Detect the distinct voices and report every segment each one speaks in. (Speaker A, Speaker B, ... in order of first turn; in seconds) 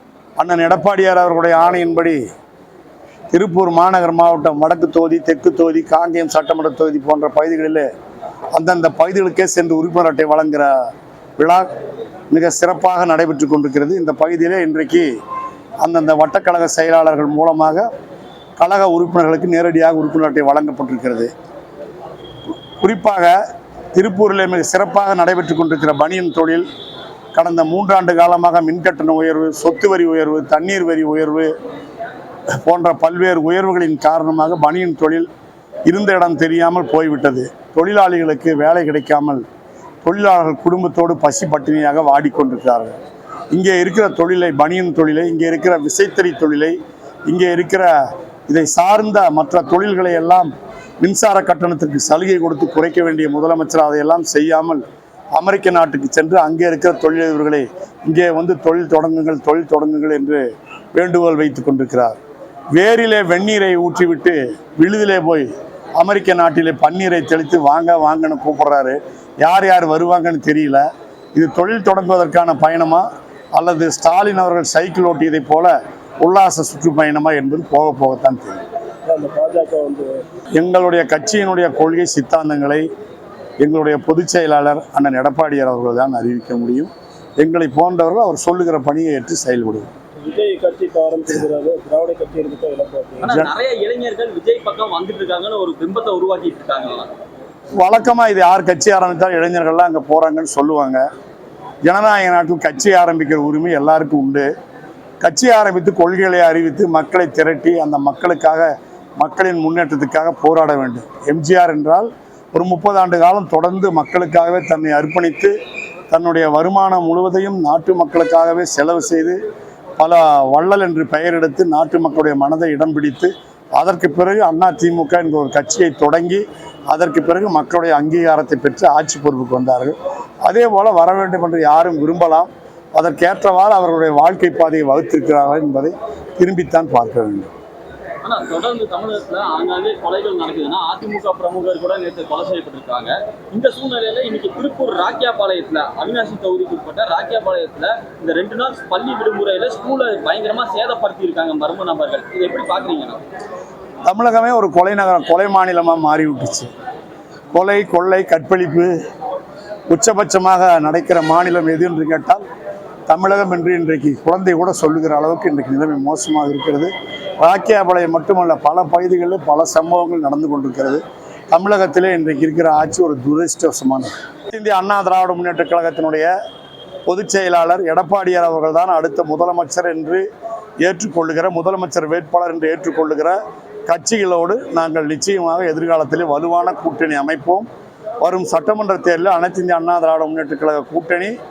Speaker A: 0.4-2.2, 3.3-7.9, 8.5-10.7, 11.4-11.7, 12.3-15.1, 15.8-17.9, 18.6-21.3, 22.8-23.4, 23.9-26.6, 27.3-31.5, 32.6-35.3, 35.9-39.4, 40.0-43.0, 43.5-46.8, 47.3-47.9, 48.5-50.5, 51.0-54.8, 55.3-60.4, 60.9-62.2, 62.7-70.8, 71.3-78.6, 80.6-82.8, 83.6-89.9, 97.8-101.0, 101.8-104.5, 105.2-115.5, 116.1-119.4, 120.0-137.5, 154.1-156.7, 157.5-158.9, 159.9-162.4, 163.1-176.3, 177.1-180.2, 180.8-187.7, 188.2-191.3
Speaker B: 79.0-80.2, 90.2-93.3
Speaker C: 93.2-97.1, 138.2-153.2